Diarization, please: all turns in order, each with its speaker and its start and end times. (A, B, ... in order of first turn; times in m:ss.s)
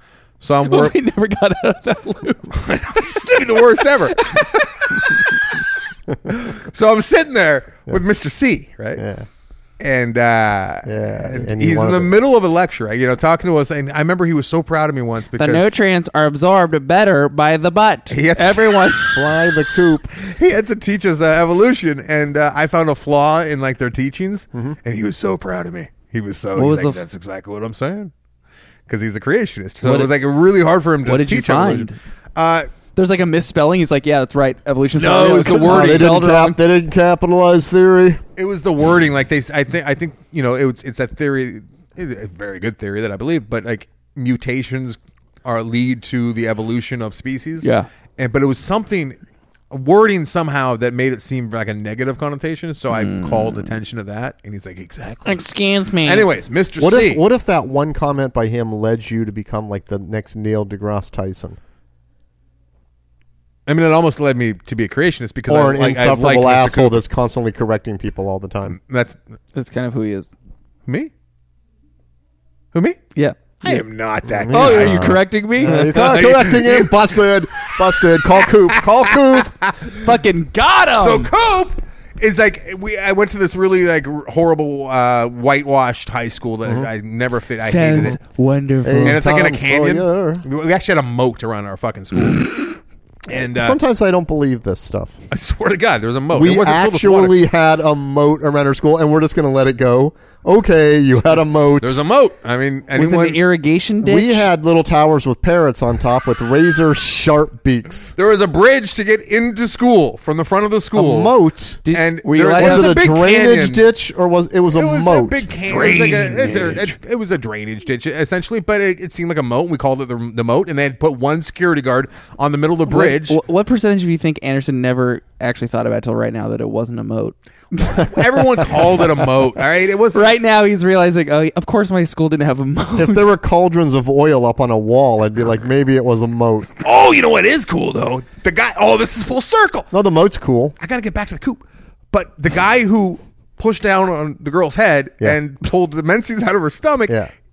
0:00.4-0:00.9 A
0:00.6-0:05.6 B
0:02.5-0:04.2 A
0:06.2-0:09.0 A
0:09.0-0:09.3 C
0:09.8-0:15.7 A
0:10.8-0:12.2 C
0:15.4-0:19.2 B
0:18.1-0:19.2 A
0:19.1-0:20.1 C
0:20.1-0:28.1 A
0:26.6-0:27.0 B
0:28.9-0:32.7 A
0:29.8-0:30.1 B
0:31.0-0:32.0 B
0:33.0-0:36.6 B
0:34.9-0:36.1 A
0:35.5-0:38.2 C
0:38.4-0:49.2 A
0:47.6-0:47.9 B
0:49.7-0:55.4 A
0:52.9-0:53.7 B
0:55.2-0:56.3 B
0:56.0-0:57.2 A
0:56.8-1:01.6 C
1:03.6-1:07.0 A
1:05.5-1:08.8 C
1:08.8-1:09.2 A
1:09.5-1:10.3 B
1:12.7-1:13.0 A
1:13.2-1:13.8 B
1:13.6-1:19.9 A
1:14.2-1:19.5 C
1:14.5-1:16.2 B
1:19.9-1:21.3 B
1:21.0-1:28.2 A
1:26.6-1:26.9 C
1:27.6-1:29.2 B
1:28.8-1:30.4 C
1:29.0-1:33.8 A
1:33.3-1:35.2 C
1:35.3-1:37.4 A
1:36.3-1:42.0 C
1:41.8-1:43.4 A
1:43.0-1:44.4 B
1:44.0-1:48.1 C
1:48.2-1:51.3 A
1:50.9-1:51.8 C
1:51.8-1:53.0 B
1:51.9-1:53.8 A
1:52.6-1:55.5 C
1:54.7-2:03.4 A
1:55.6-1:57.0 B
2:02.9-2:08.3 B
2:07.8-2:10.2 A
2:10.1-2:13.3 B
2:13.0-2:16.7 C
2:16.8-2:19.9 A
2:19.9-2:20.8 C
2:20.8-2:27.2 A